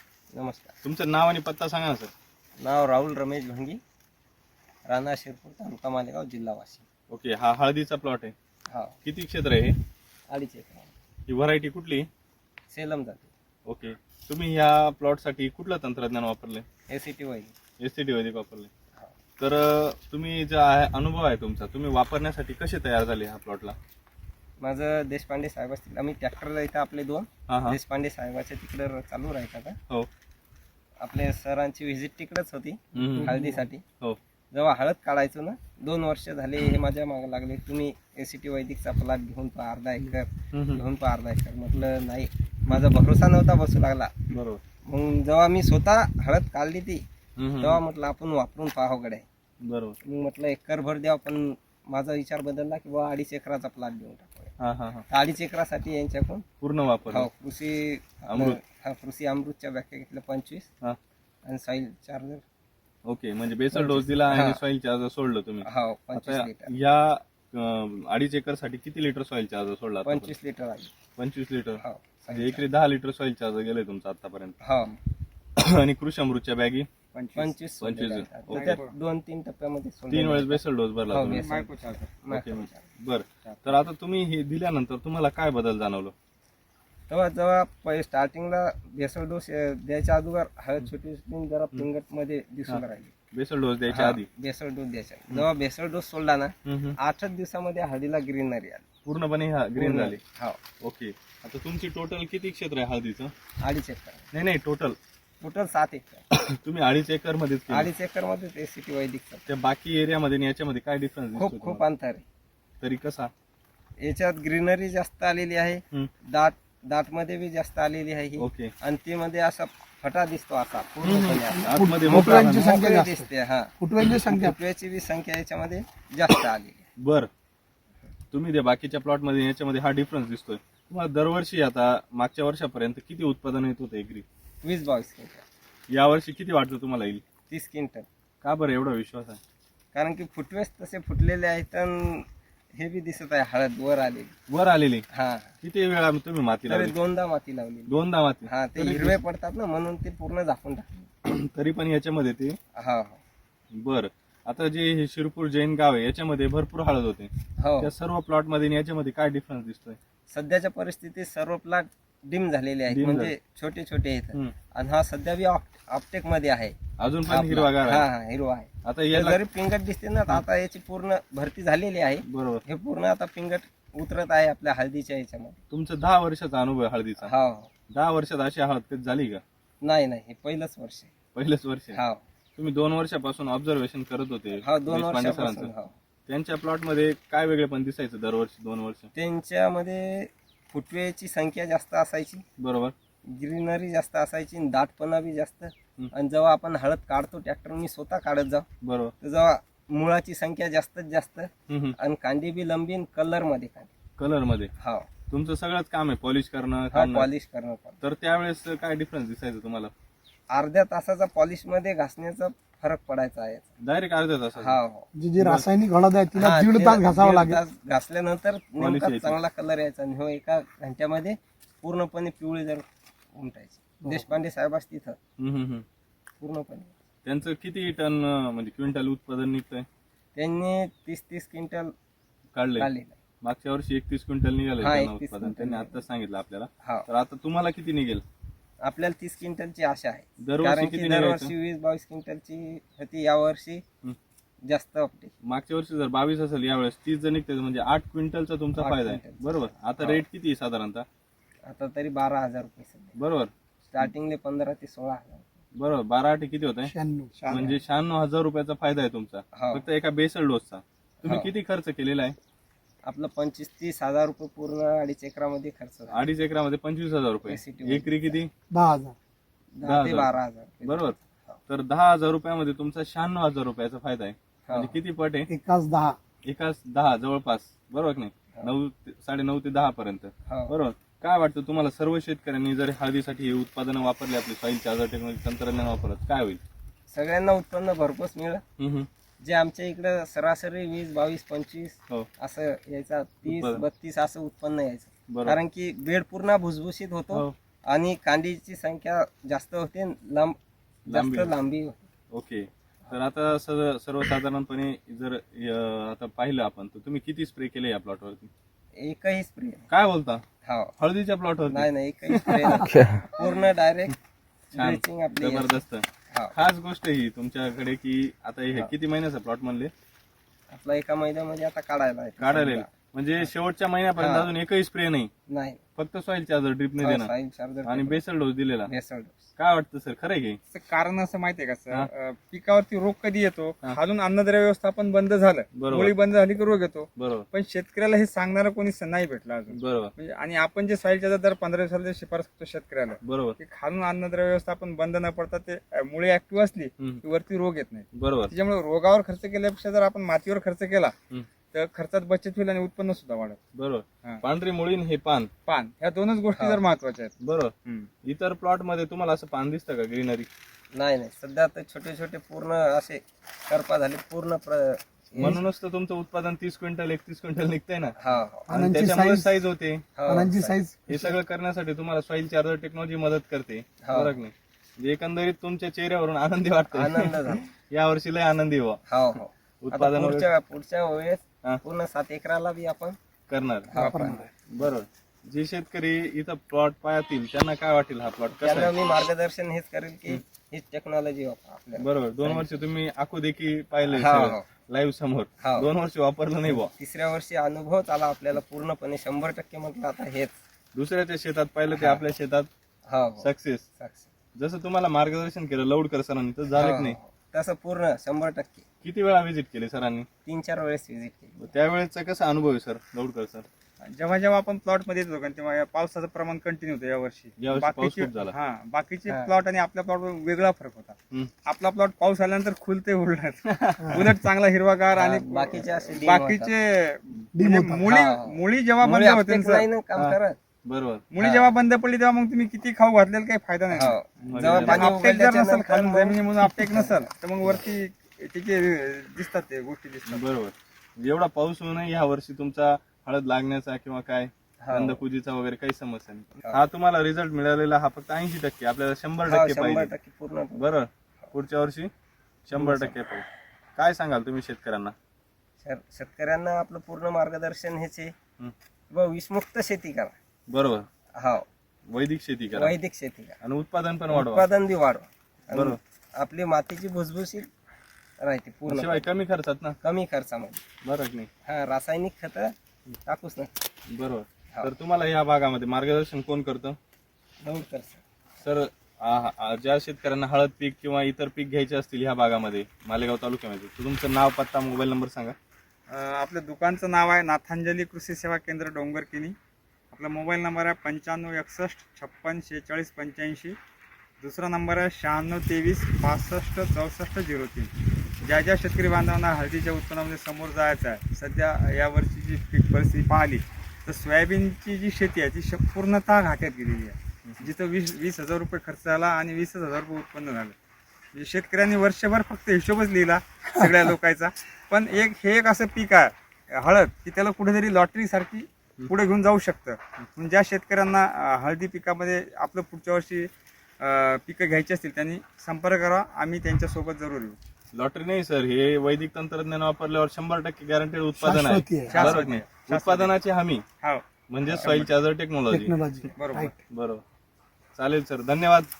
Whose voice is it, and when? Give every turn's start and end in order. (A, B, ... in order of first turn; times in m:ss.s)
0:00.3-0:00.7 A
0:00.8-0:02.1 B
0:02.6-0:03.8 A
0:04.9-0:06.8 A
0:07.1-0:08.3 B
0:08.7-0:09.0 A
0:09.0-0:09.8 B
0:10.3-0:10.9 A
0:11.3-0:12.1 B
0:12.7-0:13.3 A
0:13.6-0:16.6 B
0:16.9-0:17.5 A
0:17.8-0:18.7 B
0:19.4-0:23.8 B
0:24.6-0:29.8 A
0:27.5-0:27.8 B
0:31.0-0:33.8 A
0:33.0-0:33.4 B
0:34.5-0:44.1 A
0:40.5-0:40.8 B
0:44.3-0:44.6 B
0:44.9-0:47.0 A
0:47.4-0:47.8 B
0:47.6-0:49.2 A
0:49.6-0:50.0 B
0:50.0-0:54.5 A
0:54.6-0:55.0 B
0:55.1-0:56.4 A
0:56.6-0:57.3 B
0:57.1-1:00.7 A
0:58.3-0:58.6 B
1:01.4-1:02.4 A
1:03.0-1:10.3 B
1:03.7-1:04.6 A
1:05.6-1:06.7 A
1:10.0-1:10.9 A
1:11.2-1:14.6 B
1:11.8-1:12.6 A
1:14.6-1:15.0 A
1:15.6-1:16.9 B
1:17.1-1:17.5 C
1:17.3-1:21.7 A
1:17.8-1:18.8 B
1:18.5-1:18.9 C
1:20.1-1:21.5 B
1:21.2-1:22.2 C
1:22.2-1:22.8 A
1:22.3-1:26.1 B
1:23.4-1:23.8 C
1:27.1-1:33.1 A
1:32.7-1:34.3 B
1:33.9-1:38.9 A
1:36.6-1:37.0 B
1:39.0-1:40.2 B
1:39.8-1:40.6 A
1:40.8-1:43.3 B
1:43.6-1:44.3 A
1:44.3-1:45.0 B
1:45.4-1:46.2 A
1:46.3-1:47.9 B
1:47.7-1:49.4 A
1:49.5-1:51.8 B
1:51.4-1:52.2 A
1:52.8-1:53.3 B
1:54.0-2:06.9 A
1:58.4-1:58.7 B
2:01.0-2:02.7 B
2:01.6-2:04.6 D
2:07.0-2:07.3 B
2:08.3-2:14.2 B
2:14.6-2:15.4 A
2:15.9-2:17.2 B
2:17.5-2:18.0 A
2:18.4-2:19.4 B
2:19.9-2:24.3 A
2:24.5-2:25.1 B
2:25.1-2:25.5 A
2:25.6-2:26.9 B
2:26.7-2:27.9 A
2:27.9-2:29.2 B
2:28.4-2:31.1 A
2:31.2-2:32.6 B
2:32.8-2:33.2 A
2:33.7-2:40.0 B
2:37.6-2:37.9 A
2:40.3-2:55.6 A
2:42.9-2:43.3 B
2:47.0-2:48.1 B
2:48.8-2:49.4 B
2:52.2-2:52.6 B
2:55.7-2:57.3 B
2:57.2-2:57.7 A
2:57.9-2:59.4 B
2:59.8-3:01.1 A
3:01.3-3:02.0 B
3:01.9-3:02.2 A
3:02.6-3:05.7 B
3:04.6-3:05.9 A
3:06.3-3:09.1 B
3:09.1-3:12.4 A
3:12.6-3:12.9 B
3:13.3-3:18.6 A
3:18.8-3:19.1 B
3:19.2-3:23.9 A
3:21.7-3:22.0 B
3:24.2-3:24.7 B
3:24.8-3:25.1 A
3:25.3-3:27.3 B
3:26.9-3:28.0 A
3:28.0-3:29.9 B
3:30.5-3:33.7 A
3:33.8-3:34.8 B
3:34.6-3:35.1 A
3:35.1-3:37.6 D
3:35.4-3:35.7 B
3:36.3-3:45.2 A
3:38.8-3:39.4 B
3:45.4-3:45.8 B
3:46.4-3:46.9 A
3:47.2-3:49.9 B
3:50.3-3:51.9 A
3:52.5-3:52.9 B
3:52.8-3:53.2 A
3:53.4-3:58.2 B
3:54.8-3:56.0 A
3:58.8-4:03.8 A
4:00.4-4:01.5 B
4:04.7-4:05.3 A
4:05.4-4:11.0 B
4:08.8-4:09.4 A
4:10.0-4:10.2 A
4:11.7-4:13.2 A
4:13.1-4:13.5 B
4:13.8-4:15.6 A
4:15.7-4:16.9 B
4:16.8-4:17.7 D
4:17.4-4:22.4 B
4:19.5-4:19.8 A
4:21.2-4:21.5 A
4:23.0-4:26.2 A
4:26.1-4:28.5 B
4:27.5-4:28.4 A
4:28.7-4:29.1 D
4:29.8-4:31.6 A
4:29.8-4:35.5 B
4:34.7-4:35.0 A
4:35.5-4:36.2 D
4:36.4-4:46.6 B
4:40.5-4:40.7 A
4:47.1-4:48.6 A
4:48.8-4:49.1 B
4:49.4-5:00.6 A
4:53.4-4:53.8 B
4:55.3-4:55.6 B
5:01.1-5:01.5 B
5:01.1-5:02.1 A
5:02.3-5:08.5 B
5:09.0-5:09.9 A
5:09.9-5:10.4 B
5:10.6-5:10.9 A
5:11.0-5:13.0 B
5:11.7-5:14.2 A
5:14.7-5:16.5 A
5:14.7-5:19.9 B
5:20.7-5:22.9 A
5:22.4-5:25.3 B
5:24.2-5:24.5 A
5:25.5-5:25.8 A
5:26.0-5:27.3 B
5:27.0-5:28.2 A
5:27.8-5:28.9 B
5:28.8-5:29.5 A
5:29.6-5:30.6 B
5:30.7-5:51.1 C
5:35.7-5:36.1 B
5:37.2-5:37.4 B
5:39.7-5:40.1 B
5:43.2-5:43.6 B
5:48.1-5:48.5 B
5:51.7-5:53.6 C
5:53.8-5:55.5 B
5:55.7-5:57.3 C
5:57.4-6:00.5 B
5:57.8-5:58.1 C
6:00.9-6:05.6 A
6:05.4-6:08.2 B
6:08.2-6:08.7 A
6:08.7-6:10.0 B
6:08.7-6:09.5 D
6:10.2-6:10.8 A
6:10.3-6:11.3 D
6:11.1-6:19.0 B
6:14.0-6:14.4 A
6:16.9-6:17.7 A
6:19.1-6:23.2 A
6:19.8-6:20.5 B
6:23.5-6:28.9 B
6:23.9-6:24.4 A
6:24.0-6:24.5 D
6:28.6-6:32.8 A
6:32.0-6:36.9 B
6:34.1-6:34.6 A
6:35.6-6:35.9 A
6:36.7-6:40.5 A
6:40.9-6:42.7 B
6:41.9-6:42.2 A
6:43.0-6:44.3 A
6:43.4-6:43.8 B
6:44.6-6:47.2 B
6:46.7-6:48.8 A
6:49.0-6:50.3 B
6:50.4-6:51.7 A
6:51.6-6:53.6 B
6:54.0-7:09.8 C
6:57.6-6:58.5 B
7:03.7-7:04.2 B
7:04.0-7:04.3 D
7:05.1-7:06.7 A
7:07.5-7:08.1 D
7:08.0-7:10.6 A
7:10.2-7:11.2 B
7:11.3-7:20.4 C
7:11.4-7:11.7 A
7:13.9-7:17.8 A
7:14.5-7:15.2 B
7:20.3-7:30.1 B
7:24.8-7:25.2 A
7:29.5-7:30.8 A
7:30.8-7:32.1 B
7:32.7-7:33.4 B
7:32.7-7:33.2 A
7:34.0-7:35.1 B
7:35.8-7:38.3 A
7:39.1-7:40.4 A
7:40.7-7:41.1 B
7:41.4-7:41.6 A
7:42.1-7:43.0 B
7:42.7-7:43.6 A
7:43.6-7:44.6 B
7:44.3-7:47.7 A
7:45.7-7:46.0 B
7:48.4-7:49.3 A
7:48.9-7:50.0 B
7:50.0-7:50.8 A
7:51.0-7:51.5 B
7:51.6-7:52.7 A
7:53.2-7:53.7 A
7:54.1-7:57.0 B
7:57.6-7:58.2 A
7:58.6-8:05.5 B
8:06.1-8:09.5 C
8:10.1-8:13.8 C
8:14.4-8:30.7 C
8:31.3-8:47.6 C
8:47.9-8:53.8 B
8:51.4-8:52.4 D
8:52.0-8:53.3 C
8:54.5-8:56.0 B
8:54.7-8:55.1 C
8:55.7-8:56.8 D
8:56.3-8:56.7 C
8:56.9-8:57.2 B
8:58.0-8:58.9 B